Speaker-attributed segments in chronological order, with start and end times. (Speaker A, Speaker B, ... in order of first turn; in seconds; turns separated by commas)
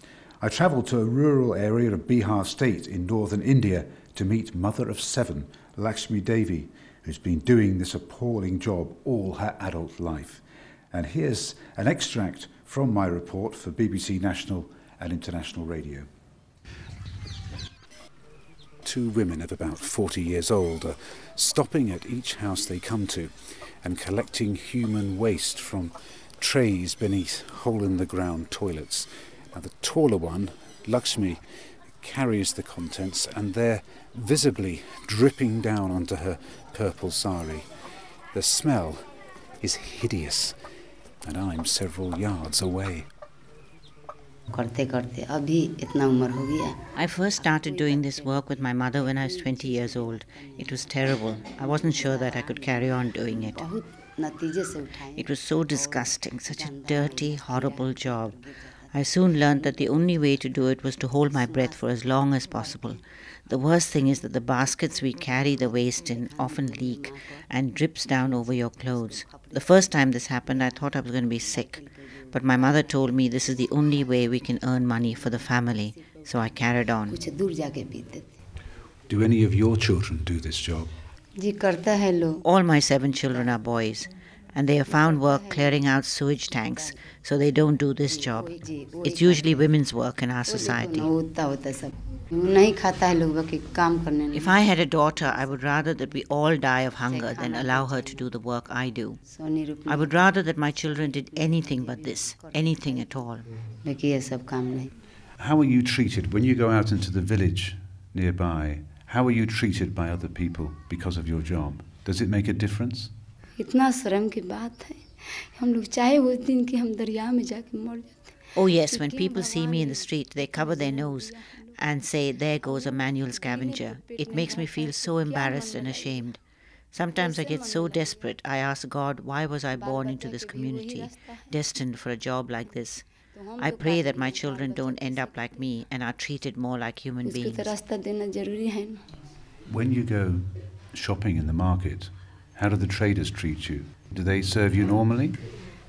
Speaker A: 0.4-16.1, Speaker A: 18.8-31.4, Speaker A: 32.0-37.7, Speaker A: 38.3-39.1, Speaker A: 39.6-40.6, Speaker A: 41.2-43.1, Speaker B: 44.5-46.8, Speaker C: 47.0-53.7, Speaker B: 47.4-50.9, Speaker B: 51.5-59.6, Speaker C: 55.2-58.4, Speaker C: 58.9-77.2, Speaker B: 61.3-61.8, Speaker B: 62.5-62.8, Speaker B: 66.0-67.4, Speaker B: 69.0-70.3, Speaker B: 71.5-71.9, Speaker B: 72.5-72.9, Speaker B: 76.0-76.5, Speaker B: 77.1-78.3, Speaker A: 79.1-80.9, Speaker B: 81.4-82.5, Speaker C: 82.4-88.5, Speaker B: 83.3-83.8, Speaker B: 84.9-85.8, Speaker B: 86.5-87.0, Speaker B: 88.1-89.8, Speaker C: 89.1-91.1, Speaker B: 90.5-94.7, Speaker C: 94.3-99.2, Speaker B: 97.0-98.3, Speaker B: 99.2-100.5, Speaker C: 99.9-103.5, Speaker B: 101.3-103.3, Speaker B: 103.8-104.9, Speaker A: 105.4-113.1, Speaker B: 113.6-120.0, Speaker C: 118.6-126.4, Speaker B: 120.7-121.1, Speaker B: 123.6-126.0, Speaker C: 126.9-137.7, Speaker B: 127.1-128.2, Speaker B: 129.7-131.5, Speaker B: 133.3-135.7, Speaker B: 137.2-139.0, Speaker A: 139.7-145.4